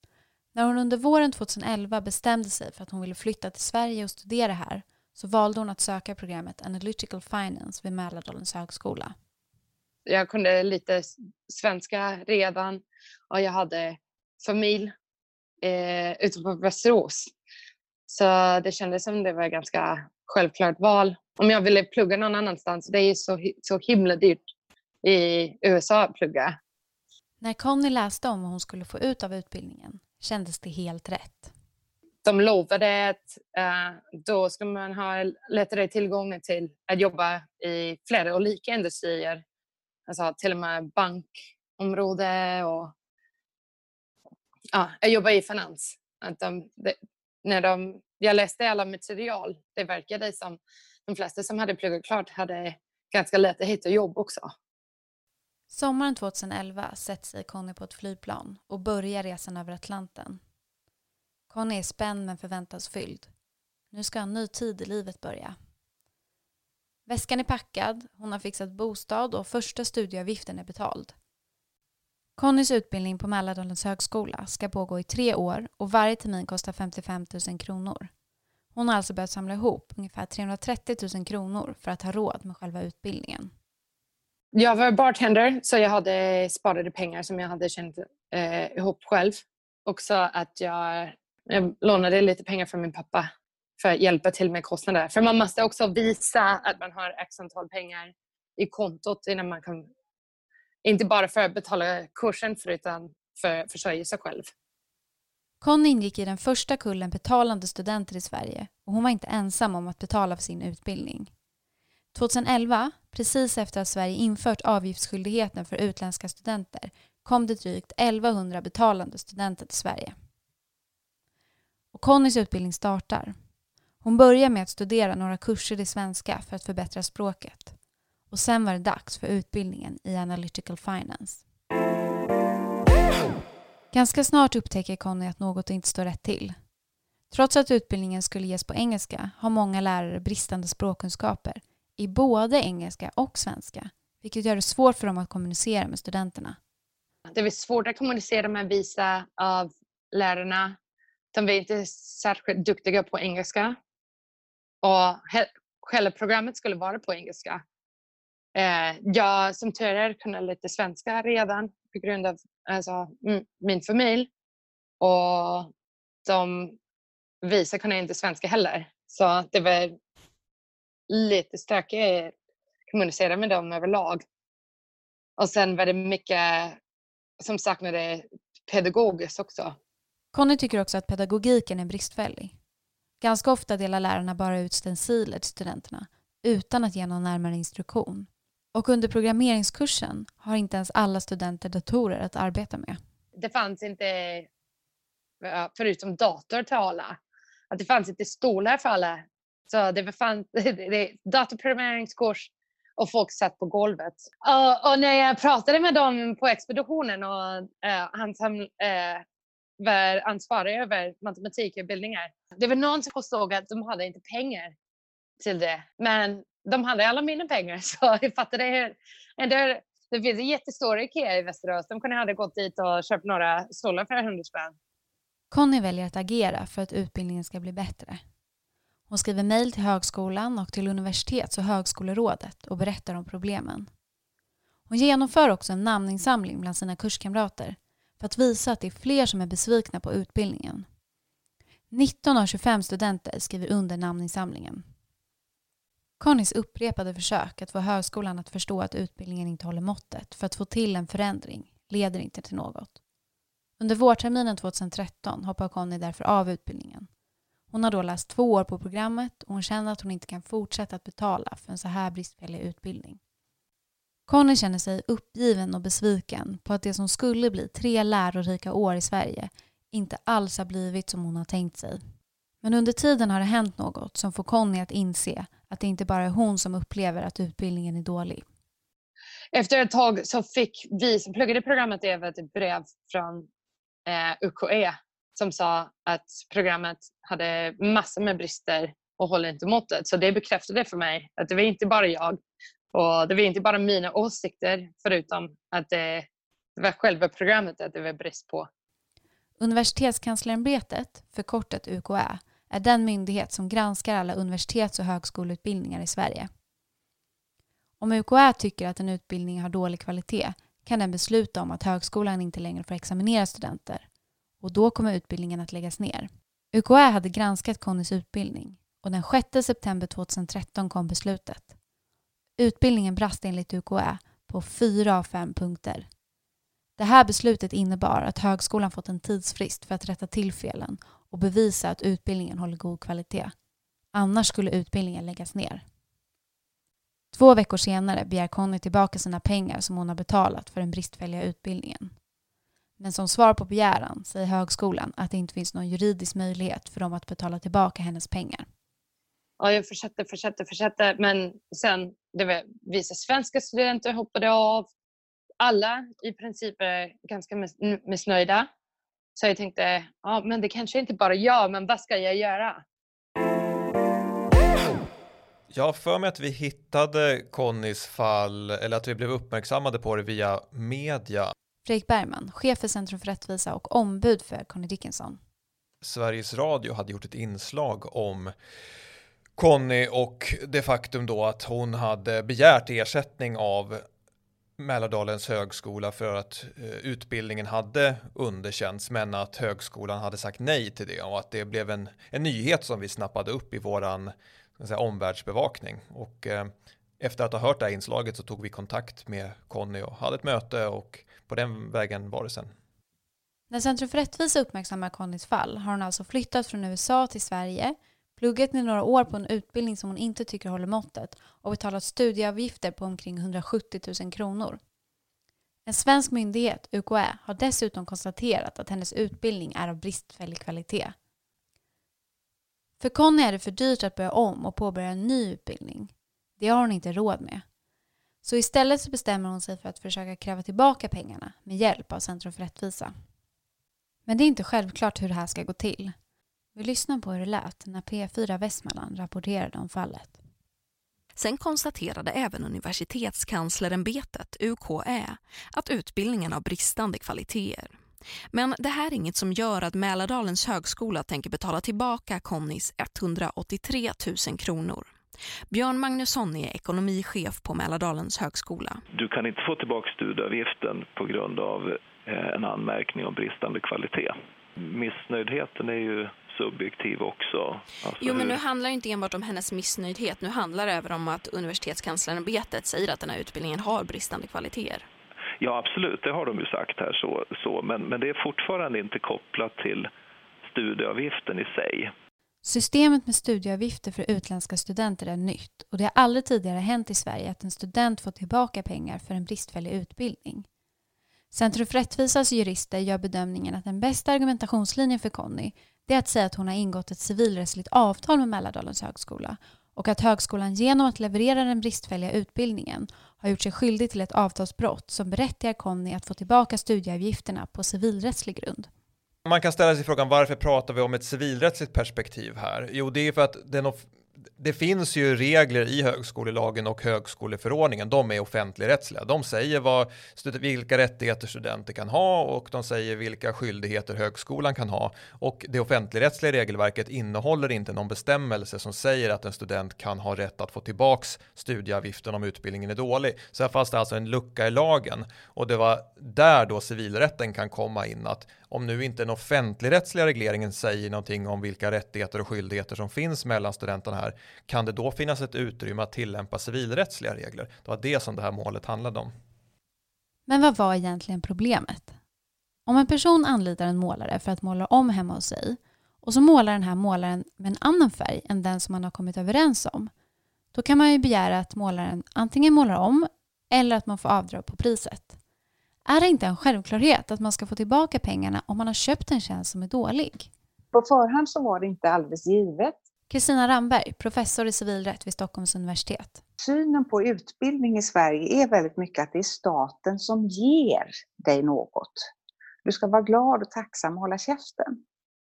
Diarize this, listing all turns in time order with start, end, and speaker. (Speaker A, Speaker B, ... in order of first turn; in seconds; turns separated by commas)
Speaker A: 0.5-9.2, Speaker B: 10.1-14.9, Speaker B: 15.6-17.3, Speaker B: 18.1-24.4, Speaker B: 25.0-26.6, Speaker A: 27.4-31.5, Speaker B: 32.2-39.4, Speaker B: 40.1-42.9, Speaker B: 44.7-54.5, Speaker A: 55.7-60.4, Speaker A: 61.5-63.3, Speaker A: 63.9-65.5, Speaker A: 67.1-71.2, Speaker A: 72.4-78.1, Speaker A: 78.7-83.5, Speaker B: 84.5-99.9, Speaker B: 100.8-104.5, Speaker A: 105.6-111.3, Speaker A: 112.1-120.2, Speaker A: 121.9-123.4, Speaker A: 124.0-127.7, Speaker A: 128.3-131.4, Speaker A: 133.9-136.6, Speaker A: 137.3-146.6, Speaker B: 147.3-150.8, Speaker B: 151.3-153.8, Speaker B: 154.8-157.6, Speaker B: 158.6-164.3, Speaker B: 165.0-165.7, Speaker B: 166.3-166.8, Speaker B: 167.4-170.0, Speaker B: 171.1-172.3, Speaker B: 172.9-174.2, Speaker B: 175.4-176.8, Speaker B: 177.4-179.8, Speaker A: 180.3-182.5, Speaker A: 183.2-193.0, Speaker B: 193.4-194.5, Speaker B: 195.4-197.2, Speaker B: 197.7-209.2, Speaker B: 209.8-214.7, Speaker B: 215.4-224.8, Speaker A: 225.5-228.2, Speaker A: 229.1-233.9, Speaker A: 234.9-240.9, Speaker A: 241.9-244.8, Speaker A: 246.2-253.0, Speaker A: 253.8-257.1, Speaker A: 257.7-263.2, Speaker A: 264.3-272.0, Speaker A: 272.6-278.4, Speaker B: 279.5-283.5, Speaker B: 284.1-292.4, Speaker B: 292.9-298.7, Speaker A: 299.6-306.5, Speaker A: 308.0-314.1, Speaker A: 314.6-321.7, Speaker A: 322.6-326.1, Speaker A: 327.0-333.5, Speaker A: 334.1-335.8, Speaker A: 337.3-342.1, Speaker A: 343.0-348.7, Speaker B: 349.6-354.9, Speaker B: 355.6-358.7, Speaker B: 359.4-362.8, Speaker C: 365.7-371.5, Speaker A: 371.9-375.4, Speaker C: 376.0-378.5, Speaker C: 379.6-384.0, Speaker C: 384.8-402.7, Speaker A: 403.7-414.8, Speaker A: 415.9-421.1, Speaker A: 423.0-427.6, Speaker A: 428.4-433.1, Speaker A: 434.3-436.1, Speaker A: 436.8-440.4, Speaker D: 441.4-448.0, Speaker D: 448.5-455.1, Speaker D: 455.7-459.0, Speaker E: 459.1-468.6, Speaker D: 468.2-475.1, Speaker E: 475.6-480.1, Speaker E: 480.7-482.1, Speaker A: 482.6-490.7, Speaker A: 491.5-508.9, Speaker C: 509.5-549.3, Speaker A: 550.5-552.2, Speaker A: 552.9-560.1, Speaker A: 560.7-565.4, Speaker A: 566.1-570.5, Speaker F: 570.9-573.0, Speaker A: 573.3-576.4, Speaker F: 576.6-582.3, Speaker F: 582.9-585.0